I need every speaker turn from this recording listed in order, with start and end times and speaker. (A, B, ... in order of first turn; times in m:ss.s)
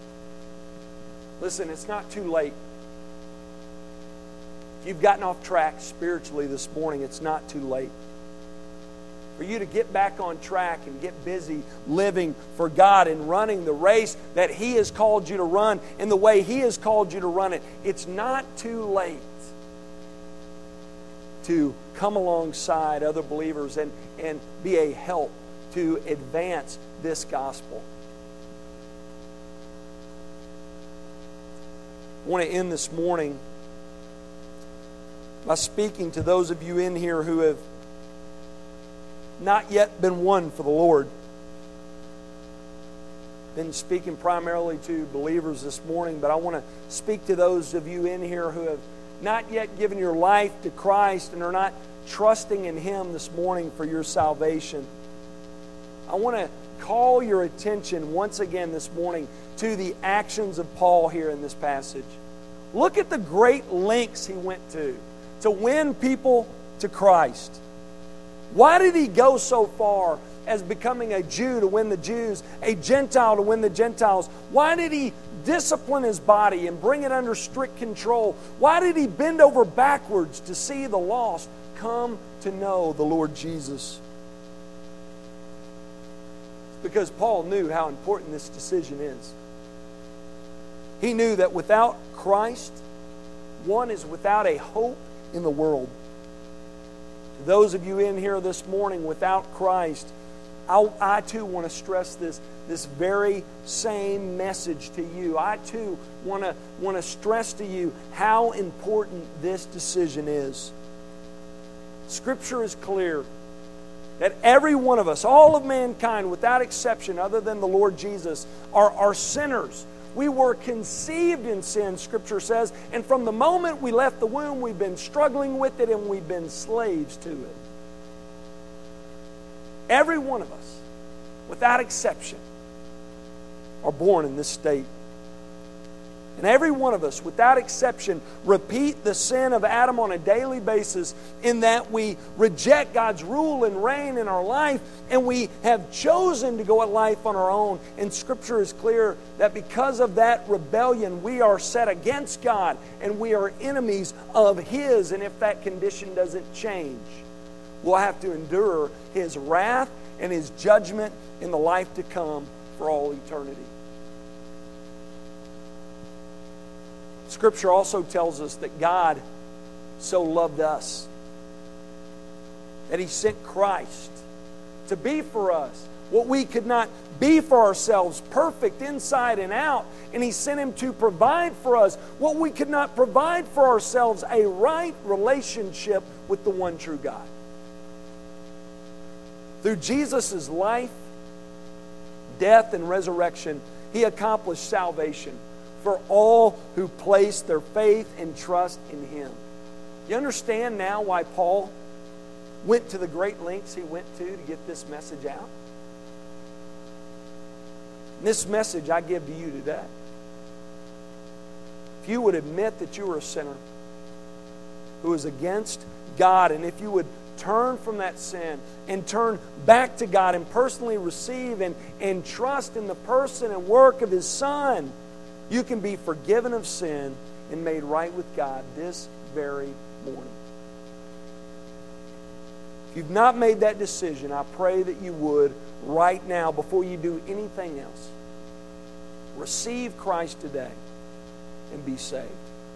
0:01.4-0:02.5 A
0:04.8-0:07.9 A
0:09.4-0:19.5 A
0:21.4-0:27.8 A
0:32.2-0:33.4 A
0:35.4-0:37.6 A
0:39.4-0:41.1 A
0:43.5-0:54.9 A
0:56.1-1:02.1 A
1:02.7-1:07.6 A
1:08.5-1:24.0 A
1:26.8-1:29.3 A
1:31.0-1:32.8 A
1:33.6-1:35.9 A
1:37.4-1:40.1 A
1:40.7-1:50.7 A
1:52.1-1:53.2 A
1:54.2-2:07.6 A
2:09.9-2:10.8 A
2:11.5-2:12.4 A
2:13.8-2:14.9 A
2:16.4-2:37.2 A
2:37.8-2:43.7 A
2:47.3-2:49.2 A
2:50.0-2:51.1 A
2:52.9-2:54.2 A
2:54.8-3:07.3 A
3:09.6-3:11.0 A
3:12.4-3:19.4 A
3:20.1-3:21.7 A
3:22.6-3:25.5 A
3:28.2-3:29.9 A
3:32.0-3:33.6 A
3:35.0-3:44.9 A
3:45.5-3:50.4 A
3:52.9-3:58.1 A
3:59.3-4:00.8 A
4:01.7-4:02.4 A